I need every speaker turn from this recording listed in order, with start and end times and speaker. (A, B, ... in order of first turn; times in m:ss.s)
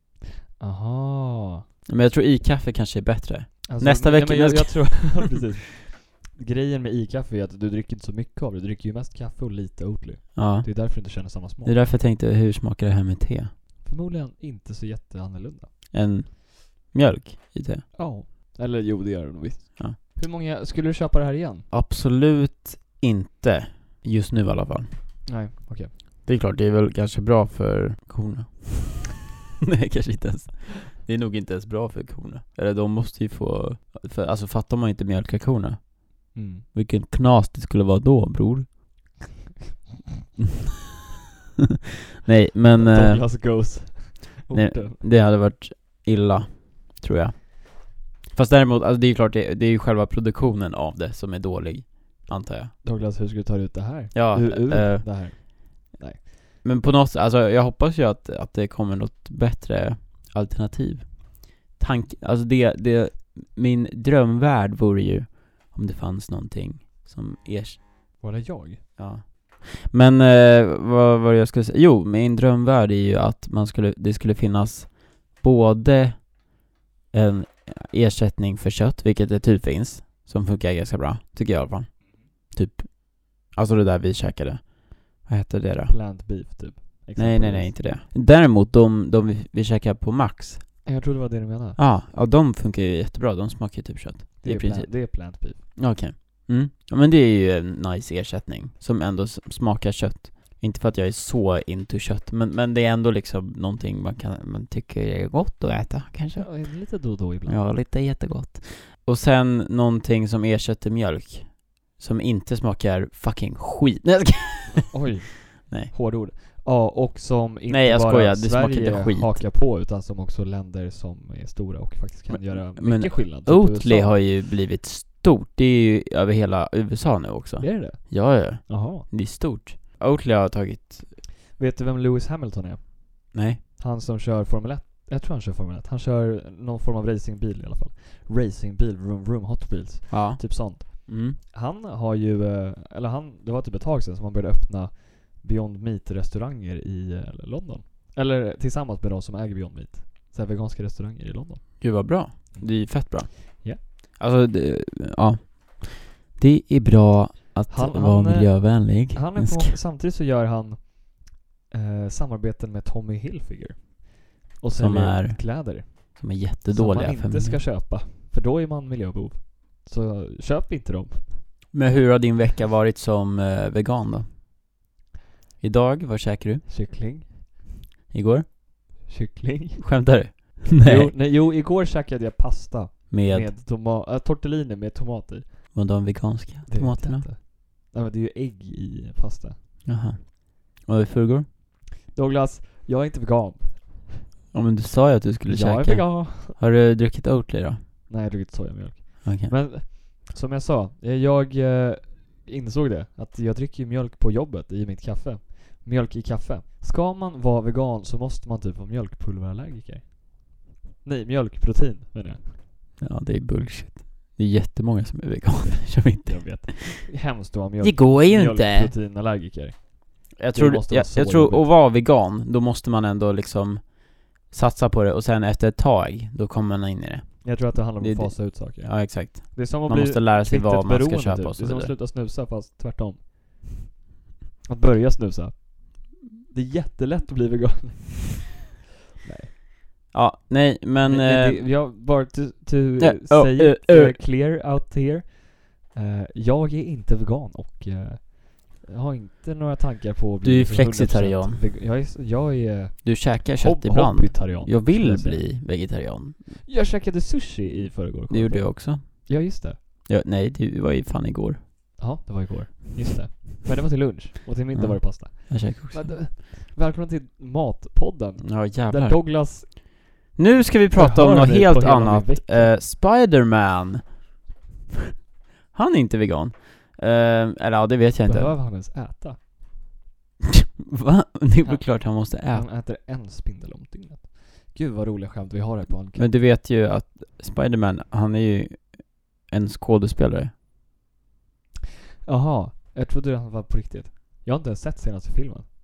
0:00.6-0:01.6 A
0:01.9-0:05.3 B
0:03.6-0:11.8 A
0:10.4-0:13.5 B
0:13.8-0:15.7 A
0:15.9-0:17.9 B
0:17.9-0:21.7 A
0:21.7-0:25.2 B
0:25.3-0:25.9 A
0:26.2-0:38.8 B
0:36.3-0:36.7 A
0:42.2-0:43.8 B
0:42.7-0:45.0 A
0:44.5-0:52.8 B
0:52.8-0:56.3 A
0:54.1-0:55.3 B
0:56.6-1:08.2 B
1:08.2-1:08.8 A
1:09.0-1:16.6 B
1:17.1-1:25.9 B
1:25.9-1:27.8 A
1:27.2-1:30.8 B
1:30.8-1:31.8 A
1:31.8-1:55.1 B
1:34.4-1:35.8 A
1:46.3-1:47.7 A
1:54.9-2:04.2 A
1:55.6-1:55.9 B
1:57.7-1:59.4 B
2:02.3-2:11.2 B
2:07.6-2:09.1 A
2:11.6-2:33.8 A
2:13.3-2:13.6 B
2:20.1-2:21.4 B
2:31.8-2:39.8 B
2:37.7-2:51.5 A
2:44.8-2:47.6 B
2:51.7-2:54.3 B
2:55.6-2:56.7 B
2:56.6-2:57.7 A
2:58.1-2:58.5 B
2:59.0-3:05.9 A
2:59.8-3:01.1 B
3:03.1-3:03.5 B
3:05.7-3:07.3 B
3:06.7-3:09.6 A
3:09.8-3:11.5 B
3:12.1-3:14.2 A
3:14.5-3:17.8 B
3:15.5-3:16.6 A
3:18.1-3:32.6 A
3:19.2-3:19.5 B
3:33.0-3:37.1 B
3:36.2-3:41.7 A
3:37.8-3:38.9 B
3:40.4-3:51.9 B
3:47.4-3:53.8 A
3:54.7-3:58.7 A
3:59.2-3:59.5 A
4:00.1-4:01.7 B
4:01.0-4:15.5 A
4:03.0-4:04.2 B
4:10.4-4:11.6 B
4:13.0-4:16.7 B
4:16.6-4:19.8 A
4:18.3-4:22.0 B
4:22.0-4:29.9 A
4:24.7-4:26.2 B
4:28.4-4:29.8 B
4:30.4-4:34.3 B
4:30.9-4:32.8 A
4:35.7-4:38.6 B
4:38.2-4:39.4 A
4:40.8-4:42.7 B
4:41.6-4:46.3 A
4:46.2-4:50.5 B
4:52.2-4:55.6 A